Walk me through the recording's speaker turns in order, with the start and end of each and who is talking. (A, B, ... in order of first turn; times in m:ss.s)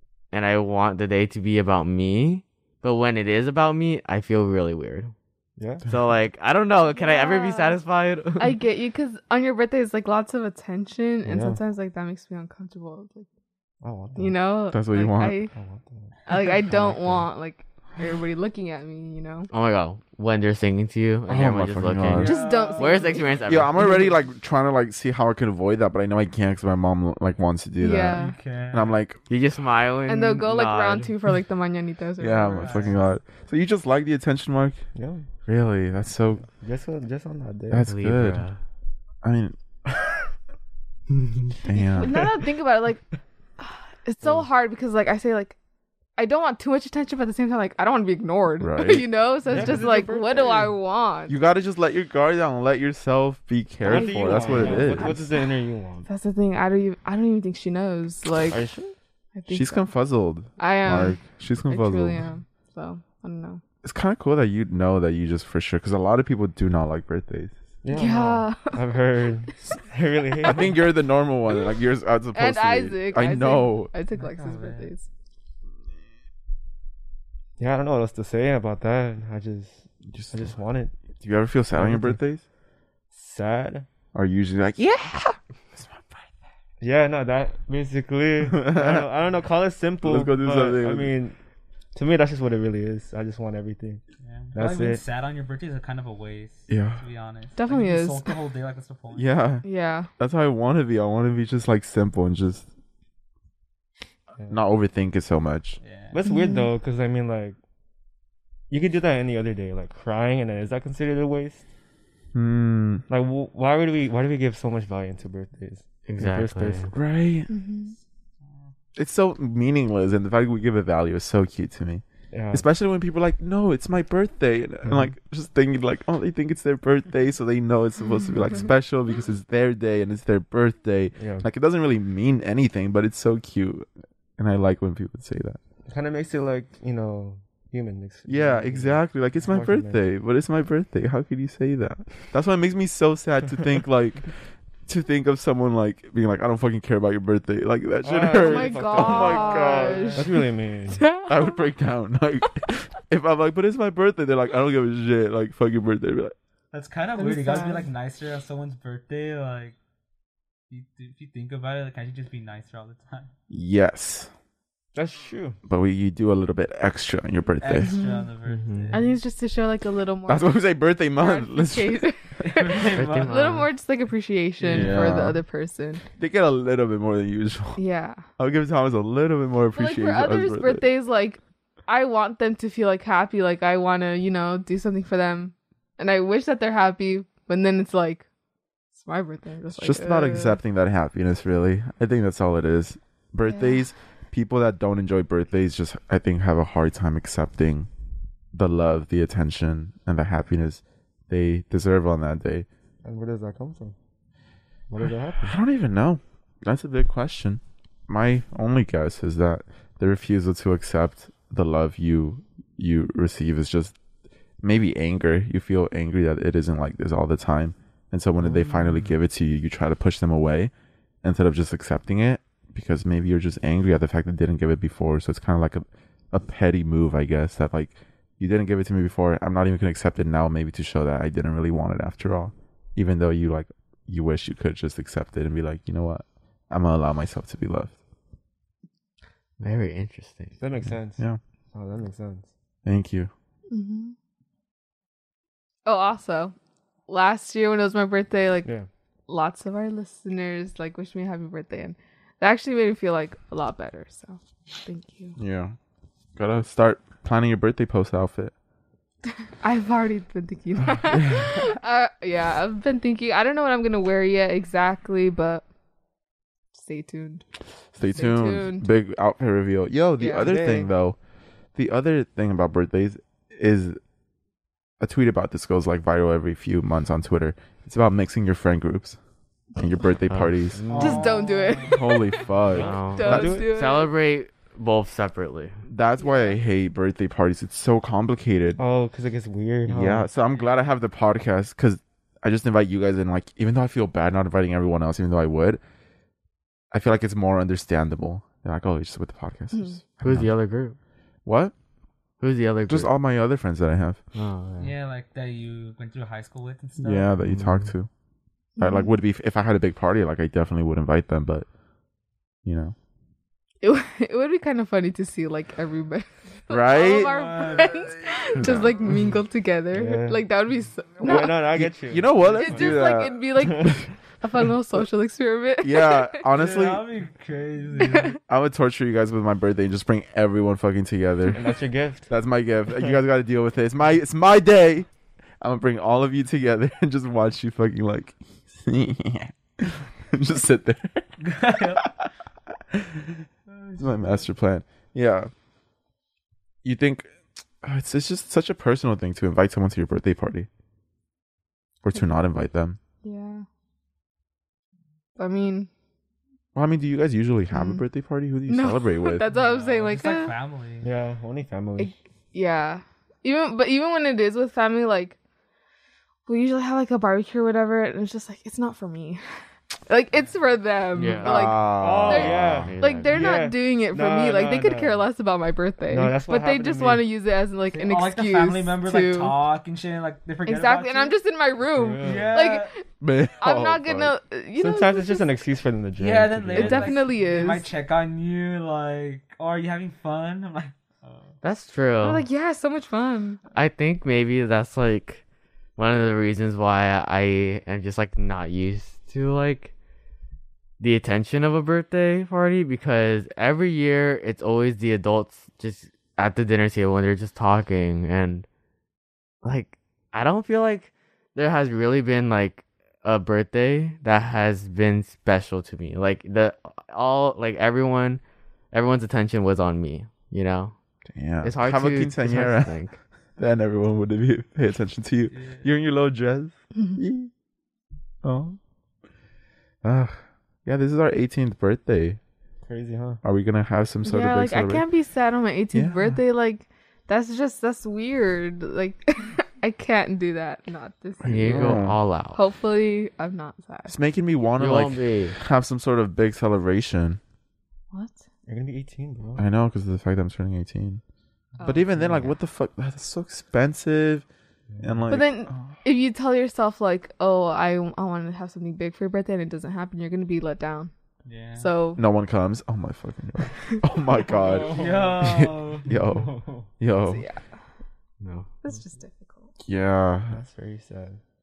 0:00.3-0:05.1 A
0:05.6-0:05.9 B
0:05.9-0:08.6 A
0:06.9-0:07.8 C
0:08.4-0:13.3 C
0:11.2-0:11.6 B
0:13.8-0:14.4 B
0:14.2-0:15.5 C
0:14.7-0:15.4 D
0:15.5-0:17.2 B
0:16.3-0:19.5 C
0:19.5-0:24.0 A
0:21.3-0:22.3 D
0:22.1-0:23.4 E
0:22.2-0:23.4 C
0:23.4-0:29.2 D
0:27.8-0:28.4 C
0:28.2-0:29.0 E
0:29.3-0:31.1 A
0:30.1-0:33.0 C
0:32.2-0:34.8 D
0:32.6-0:33.0 E
0:35.0-0:35.3 B
0:35.5-0:36.5 D
0:36.4-0:37.9 B
0:37.7-0:38.4 D
0:37.9-0:38.6 A
0:39.2-0:40.1 D
0:41.6-0:42.2 D
0:41.7-0:43.1 C
0:43.6-0:45.6 C
0:46.2-0:51.4 C
0:48.6-0:49.1 D
0:49.5-0:50.7 B
0:51.3-0:55.2 D
0:53.8-0:56.1 B
0:53.9-0:55.4 C
0:56.1-0:58.6 C
0:58.5-0:58.9 B
0:59.4-0:59.9 C
0:59.5-1:02.2 D
1:00.6-1:03.6 C
1:03.8-1:07.6 D
1:07.8-1:10.8 B
1:07.9-1:08.8 C
1:10.4-1:13.9 D
1:12.3-1:15.1 C
1:14.2-1:14.9 E
1:17.6-1:21.0 B
1:20.1-1:20.5 D
1:21.2-1:22.4 D
1:21.7-1:22.2 B
1:23.1-1:23.9 B
1:24.1-1:26.3 D
1:26.8-1:31.4 B
1:28.4-1:29.1 D
1:30.0-1:31.1 D
1:31.9-1:34.0 B
1:34.2-1:39.4 E
1:34.5-1:35.0 B
1:36.7-1:37.0 D
1:37.6-1:38.4 C
1:39.1-1:39.6 D
1:39.6-1:40.1 C
1:40.2-1:42.7 D
1:44.5-1:45.8 D
1:45.8-1:46.2 E
1:46.1-1:47.6 B
1:46.2-1:46.7 C
1:48.7-1:51.6 B
1:52.3-1:53.0 D
1:53.1-1:56.9 B
1:56.1-1:56.9 A
1:56.9-1:57.5 D
1:57.5-1:58.0 C
1:59.0-2:13.9 D
2:02.3-2:02.7 B
2:04.8-2:05.1 B
2:11.2-2:11.5 B
2:14.4-2:15.6 D
2:15.9-2:20.0 B
2:18.3-2:24.3 D
2:24.9-2:30.2 D
2:28.0-2:31.2 B
2:28.3-2:31.6 C
2:29.6-2:30.2 E
2:31.3-2:36.4 D
2:36.7-2:39.8 E
2:37.2-2:37.9 C
2:40.7-2:43.3 E
2:43.5-2:44.3 D
2:45.0-2:45.6 B
2:45.7-2:48.0 D
2:47.6-2:49.1 E
2:47.8-2:48.3 C
2:48.5-2:49.0 A
2:48.9-2:50.6 C
2:50.3-2:52.1 D
2:51.2-2:56.0 C
2:52.4-2:53.4 E
2:52.9-2:53.7 A
2:54.7-2:55.4 D
2:56.2-2:57.8 D
2:57.8-2:58.2 C
2:58.4-3:00.9 D
2:59.8-3:08.3 C
3:08.9-3:10.6 C
3:09.7-3:17.9 D
3:13.5-3:13.8 C
3:18.5-3:22.7 D
3:23.0-3:24.0 B
3:24.9-3:25.6 B
3:25.4-3:34.0 D
3:34.6-3:40.7 D
3:38.5-3:39.0 B
3:41.2-3:58.0 D
3:59.6-4:00.6 A
4:00.6-4:02.5 B
4:02.8-4:03.3 D
4:03.7-4:04.2 C
4:05.9-4:06.5 C
4:07.1-4:08.7 C
4:09.3-4:15.4 C
4:15.4-4:15.8 D
4:16.4-4:18.5 D
4:19.6-4:25.6 C
4:21.1-4:21.4 D
4:26.7-4:27.4 C
4:27.9-4:31.2 D
4:28.0-4:28.9 C
4:30.2-4:30.5 C
4:30.3-4:30.9 B
4:31.8-4:34.0 D
4:35.0-4:39.2 D
4:39.8-4:40.8 D
4:40.3-4:41.3 A
4:40.9-4:42.2 E
4:41.0-4:42.4 C
4:41.9-4:43.5 D
4:42.7-4:43.7 B
4:42.8-4:45.8 A
4:43.1-4:44.1 C
4:45.9-4:48.8 D
4:48.8-4:50.3 B
4:49.9-4:55.8 D
4:56.9-5:00.5 D
4:59.7-5:00.0 C
5:00.2-5:01.0 A
5:01.4-5:01.7 D
5:02.4-5:03.1 A
5:02.9-5:04.2 D
5:04.4-5:04.9 A
5:04.8-5:07.3 E
5:07.0-5:08.1 D
5:07.5-5:07.9 A
5:08.8-5:09.1 C
5:08.8-5:11.7 D
5:12.6-5:13.0 D
5:13.8-5:21.6 C
5:16.7-5:17.4 D
5:17.0-5:18.2 E
5:18.6-5:19.1 D
5:19.9-5:20.4 B
5:21.2-5:23.0 B
5:21.7-5:23.4 D
5:22.6-5:26.4 C
5:23.6-5:24.0 B
5:25.8-5:27.1 D
5:26.5-5:28.4 E
5:28.0-5:28.3 C
5:28.5-5:31.7 D
5:31.5-5:32.3 B
5:32.3-5:35.1 D
5:35.6-5:41.4 D
5:41.4-5:42.1 E
5:42.9-5:43.4 D
5:43.7-5:44.5 E
5:44.0-5:45.5 D
5:46.8-5:50.7 D
5:52.0-5:53.0 D
5:53.2-5:53.6 C
5:55.4-5:55.9 C
5:56.8-5:59.4 D
5:57.7-5:58.0 C
5:58.7-6:00.5 C
5:59.5-6:01.1 E
6:01.0-6:02.1 B
6:02.0-6:05.4 C
6:06.5-6:09.4 C
6:10.1-6:19.6 C
6:11.1-6:13.5 A
6:11.4-6:12.9 D
6:12.0-6:15.3 B
6:16.1-6:17.3 B
6:17.9-6:21.4 E
6:20.7-6:23.0 C
6:21.9-6:22.7 B
6:22.2-6:22.9 E
6:23.2-6:24.3 D
6:23.6-6:25.5 C
6:24.8-6:27.7 B
6:26.2-6:31.5 E
6:26.7-6:27.9 C
6:31.6-6:32.4 A
6:32.2-6:33.6 C
6:33.7-6:35.4 A
6:36.0-6:39.9 A
6:41.0-6:48.7 A
6:49.6-7:01.0 A
7:01.3-7:03.0 D
7:01.6-7:03.1 A
7:03.6-7:07.5 D
7:05.5-7:05.8 E
7:08.4-7:08.8 D
7:10.0-7:12.4 D
7:12.8-7:13.4 B
7:13.4-7:15.0 D
7:14.2-7:22.0 C
7:15.9-7:16.4 D
7:21.4-7:22.2 D
7:21.5-7:22.6 A
7:22.5-7:24.1 C
7:24.1-7:27.4 D
7:24.8-7:25.6 A
7:28.1-7:28.4 C
7:28.7-7:29.6 B
7:29.6-7:31.2 D
7:31.8-7:32.1 C
7:31.8-7:34.5 D
7:32.2-7:32.5 B
7:34.9-7:35.3 B
7:35.0-7:35.9 D
7:35.3-7:41.1 C
7:41.4-7:41.9 E
7:41.8-7:42.2 C
7:42.2-7:47.4 D
7:44.5-7:46.9 B
7:44.6-7:46.1 E
7:47.2-7:47.6 C
7:48.4-7:48.7 A
7:48.8-7:49.7 C
7:49.8-7:50.6 D
7:50.5-7:51.4 B